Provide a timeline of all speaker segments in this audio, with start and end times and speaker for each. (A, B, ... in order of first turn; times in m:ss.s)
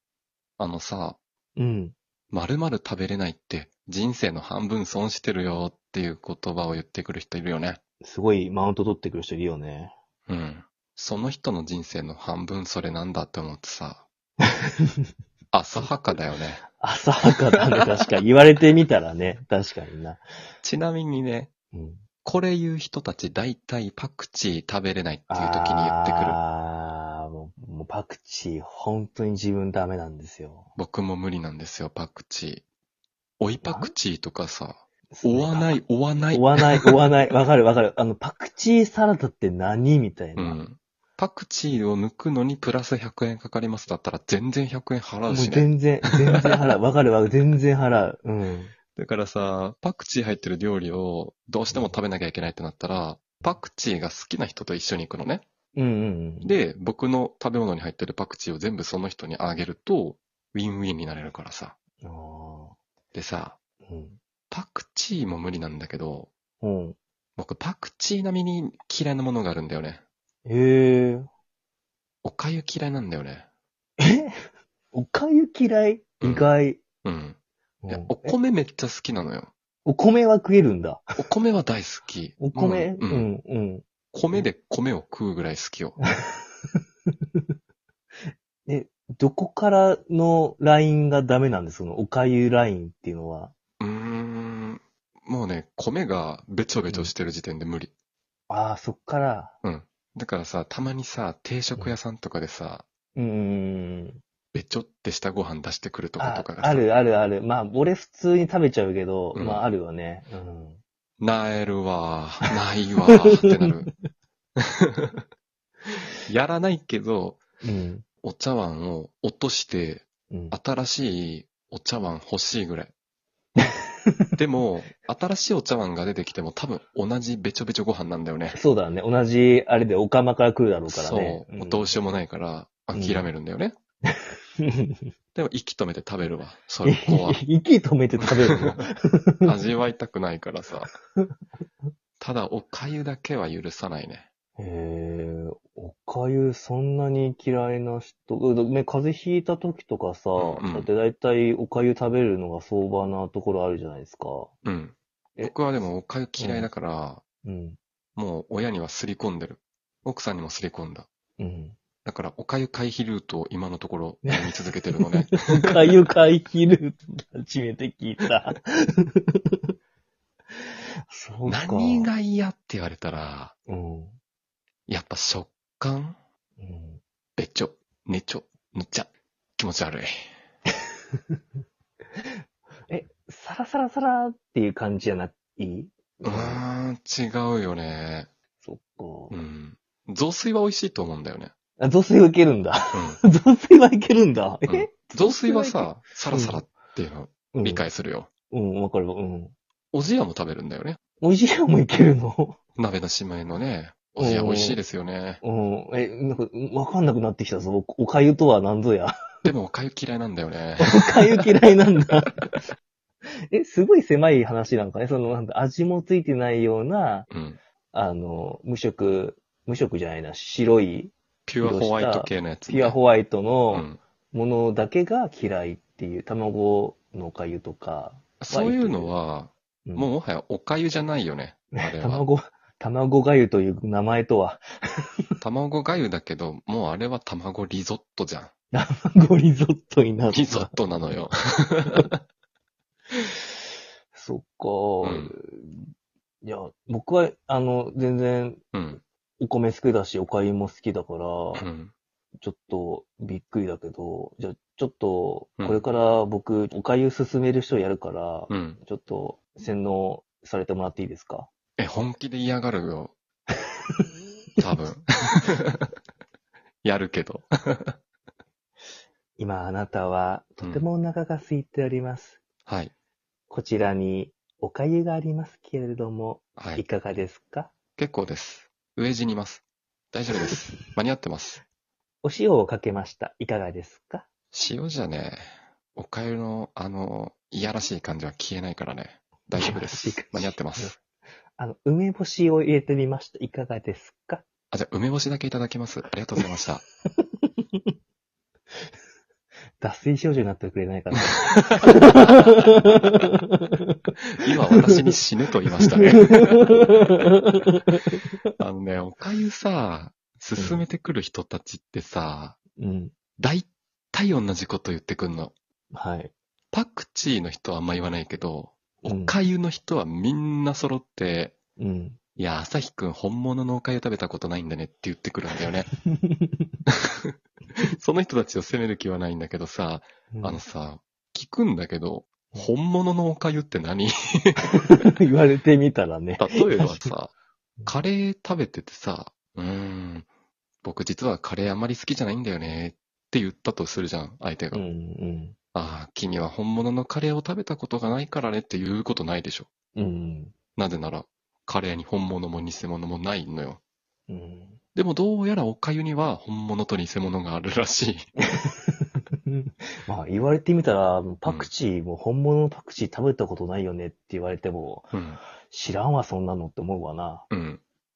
0:00.6-0:01.2 A
0:01.6-0:01.9 B
0:02.3-0:07.8 A
0:08.0-0:09.9 B
0:10.3-0:14.0 A
0:15.5-0:16.6 A
0:16.8-0:20.2 B
0:20.6-0:21.5 A
0:21.7-0:22.0 B
0:22.2-0:26.4 A
0:25.3-0:30.7 B
0:30.8-0:32.6 A
0:33.4-0:37.0 A
0:33.6-0:33.9 B
0:35.1-0:40.6 B
0:40.4-0:45.7 A
0:45.3-0:48.7 B
0:49.0-0:55.4 A
0:55.7-0:56.6 B
0:56.4-1:01.7 A
1:02.0-1:02.8 B
1:03.1-1:03.6 A
1:03.8-1:04.2 B
1:04.5-1:06.3 A
1:06.6-1:07.0 B
1:07.4-1:10.0 A
1:10.4-1:11.3 B
1:12.2-1:13.4 A
1:14.0-1:14.3 B
1:14.9-1:16.8 B
1:16.2-1:16.5 A
1:17.0-1:17.4 A
1:17.8-1:18.4 B
1:17.9-1:19.5 A
1:19.8-1:21.2 B
1:21.2-1:23.3 A
1:22.4-1:24.5 B
1:24.1-1:26.0 A
1:26.0-1:26.8 B
1:28.6-1:33.5 B
1:33.8-1:37.9 A
1:38.5-1:39.5 B
1:39.6-1:42.8 A
1:43.2-1:44.2 B
1:44.5-1:46.8 A
1:46.2-1:50.8 B
1:49.3-1:49.6 A
1:51.2-1:53.9 A
1:53.2-1:53.6 B
1:54.6-1:55.2 A
1:56.3-1:57.4 A
1:57.6-1:58.0 B
1:58.2-2:02.9 A
2:00.3-2:00.6 B
2:03.6-2:04.3 B
2:04.4-2:08.6 A
2:08.5-2:11.9 B
2:10.9-2:13.7 A
2:12.9-2:13.3 B
2:14.1-2:15.0 B
2:15.3-2:17.4 A
2:16.8-2:19.5 B
2:18.2-2:18.8 A
2:19.4-2:20.9 A
2:22.2-2:24.3 A
2:24.6-2:34.5 B
2:30.4-2:30.9 A
2:34.6-2:37.2 A
2:36.4-2:36.7 B
2:37.4-2:37.8 B
2:38.2-2:41.1 A
2:41.4-2:41.8 B
2:42.0-2:45.9 A
2:44.2-2:49.6 B
2:51.1-2:52.1 B
2:51.4-2:53.5 A
2:53.7-2:54.2 B
2:54.9-2:56.2 A
2:56.6-2:57.0 B
2:57.4-3:00.2 A
3:02.9-3:06.6 B
3:06.2-3:08.3 A
3:08.6-3:09.4 B
3:09.3-3:11.5 A
3:11.8-3:16.6 B
3:12.9-3:13.2 A
3:14.6-3:18.3 A
3:17.5-3:17.9 B
3:18.5-3:19.5 B
3:19.9-3:21.0 A
3:21.2-3:22.6 B
3:22.8-3:25.4 A
3:24.2-3:24.8 B
3:25.4-3:29.2 B
3:29.4-3:31.5 A
3:30.8-3:32.5 B
3:33.5-3:37.3 B
3:37.3-3:37.6 A
3:37.9-3:49.1 B
3:41.5-3:43.0 A
3:43.7-3:44.0 A
3:48.4-3:52.2 A
3:49.8-3:50.1 B
3:51.7-3:54.6 B
3:55.4-3:58.5 A
3:58.7-4:00.8 B
4:00.3-4:02.1 A
4:04.1-4:05.9 B
4:05.0-4:05.3 A
4:06.4-4:08.6 B
4:08.7-4:09.0 A
4:09.4-4:11.6 B
4:11.6-4:11.9 A
4:12.4-4:21.5 B
4:18.5-4:18.8 A
4:21.8-4:23.1 A
4:24.6-4:25.9 A
4:26.8-4:27.9 A
4:29.4-4:32.4 B
4:32.6-4:32.9 A
4:33.5-4:37.7 B
4:36.6-4:36.8 A
4:38.0-4:41.6 A
4:42.2-4:44.3 B
4:44.5-4:45.4 A
4:46.0-4:51.0 A
4:49.6-4:50.9 B
4:51.6-4:54.4 B
4:54.7-4:56.8 A
4:59.8-5:04.1 B
5:04.4-5:07.3 A
5:05.9-5:08.4 B
5:08.6-5:12.6 A
5:10.6-5:10.8 B
5:12.8-5:13.1 B
5:13.4-5:15.5 A
5:15.9-5:16.3 B
5:16.7-5:21.6 A
5:19.0-5:19.3 B
5:21.8-5:22.2 B
5:22.4-5:25.9 A
5:26.0-5:26.7 B
5:26.9-5:35.1 A
5:30.3-5:30.6 B
5:34.8-5:37.1 B
5:36.4-5:37.3 A
5:37.8-5:40.3 A
5:40.8-5:44.8 A
5:44.7-5:45.6 B
5:45.7-5:49.7 A
5:50.0-5:50.5 B
5:50.8-5:53.8 A
5:54.3-5:54.8 B
5:54.9-5:58.2 A
5:58.4-6:07.5 B
6:05.1-6:05.4 A
6:07.5-6:07.8 A